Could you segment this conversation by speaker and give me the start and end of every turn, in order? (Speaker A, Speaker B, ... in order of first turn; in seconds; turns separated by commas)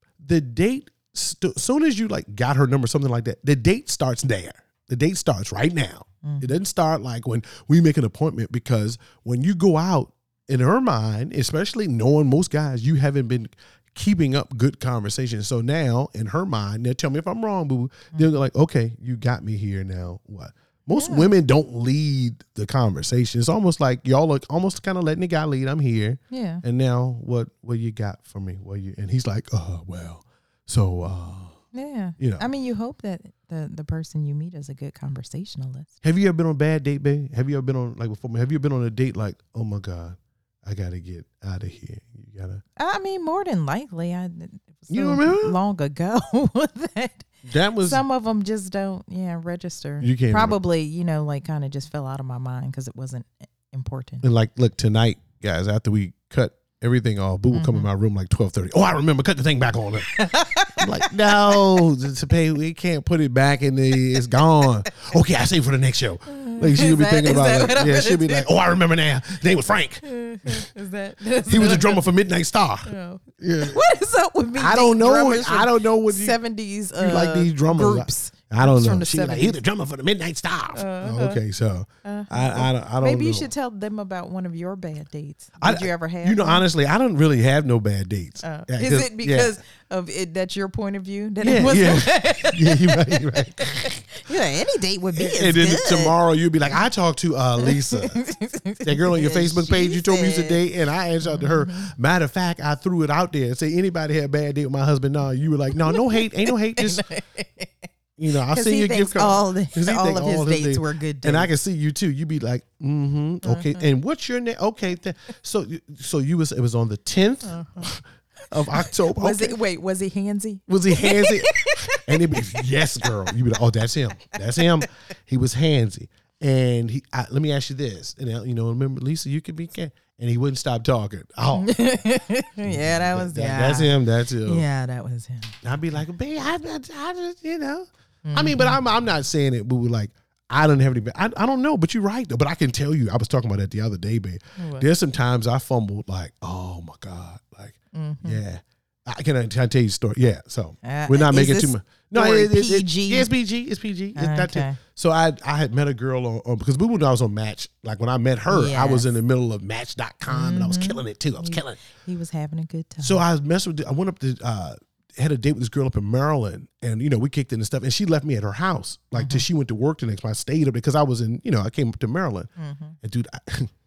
Speaker A: 0.2-31.6, Speaker B: 6.2-6.5, Speaker B: 20.9-21.3, Speaker B: 26.3-26.6, Speaker B: 31.7-35.9, Speaker A: 32.2-32.5, Speaker A: 36.0-42.6, Speaker B: 42.8-54.2, Speaker A: 44.9-45.6, Speaker A: 47.5-48.0, Speaker A: 50.0-50.6, Speaker A: 54.2-60.2, Speaker B: 57.5-57.9, Speaker B: 60.1-61.9, Speaker A: 60.7-70.6, Speaker B: 64.1-64.7, Speaker B: 66.2-68.5, Speaker B: 70.0-72.0, Speaker A: 71.4-73.8, Speaker B: 72.8-79.6, Speaker A: 74.5-76.4, Speaker A: 77.0-83.5, Speaker B: 80.7-81.4, Speaker B: 82.0-86.7, Speaker A: 85.6-89.5, Speaker B: 88.4-96.2, Speaker A: 91.4-94.1, Speaker A: 95.2-98.2, Speaker B: 97.6-100.6, Speaker A: 98.8-107.0, Speaker B: 101.2-101.9, Speaker B: 105.7-111.5, Speaker A: 108.2-119.5, Speaker B: 113.4-113.8, Speaker B: 117.4-117.9, Speaker B: 118.5-123.4, Speaker A: 120.7-131.8, Speaker B: 124.3-124.8, Speaker B: 131.5-135.6, Speaker A: 132.6-134.6, Speaker A: 135.6-161.8, Speaker B: 138.2-138.8, Speaker B: 144.6-144.9, Speaker B: 147.9-148.4, Speaker B: 150.8-153.3, Speaker B: 154.2-154.8, Speaker B: 158.5-159.1, Speaker B: 160.3-163.2, Speaker A: 163.0-172.5, Speaker B: 169.1-169.4, Speaker B: 172.6-173.0, Speaker A: 173.0-173.7